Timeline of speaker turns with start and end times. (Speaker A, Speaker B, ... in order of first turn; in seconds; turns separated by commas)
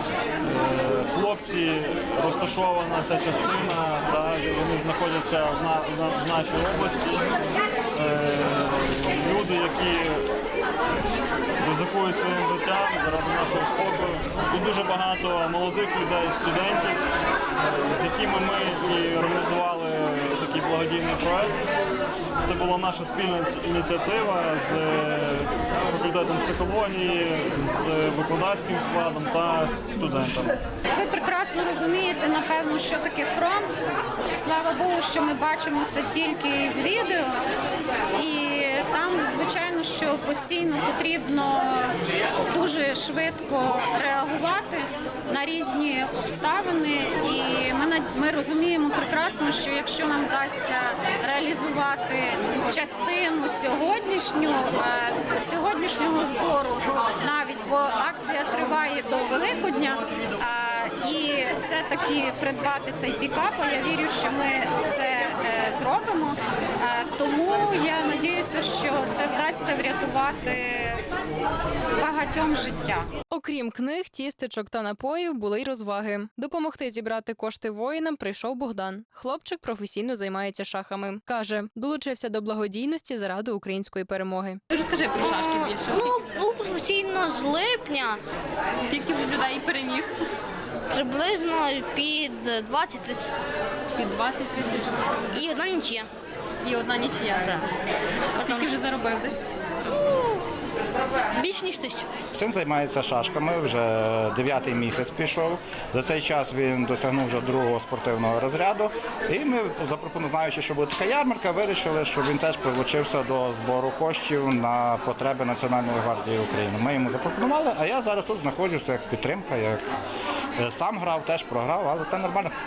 Speaker A: 0.4-7.3, Speaker A: 7.9-10.3, Speaker A: 11.6-17.0, Speaker A: 17.6-21.6, Speaker A: 22.4-30.6, Speaker B: 30.9-37.4, Speaker B: 38.1-71.1, Speaker B: 72.0-73.1, Speaker C: 73.3-84.6, Speaker D: 84.7-86.5, Speaker E: 85.2-88.2, Speaker D: 88.8-90.1, Speaker E: 90.9-93.3, Speaker D: 94.0-95.4, Speaker E: 95.3-96.1, Speaker D: 96.6-97.7, Speaker E: 98.3-98.8, Speaker D: 98.4-99.4, Speaker E: 99.8-100.4, Speaker E: 101.3-102.1, Speaker F: 102.3-119.8, Speaker F: 120.6-122.5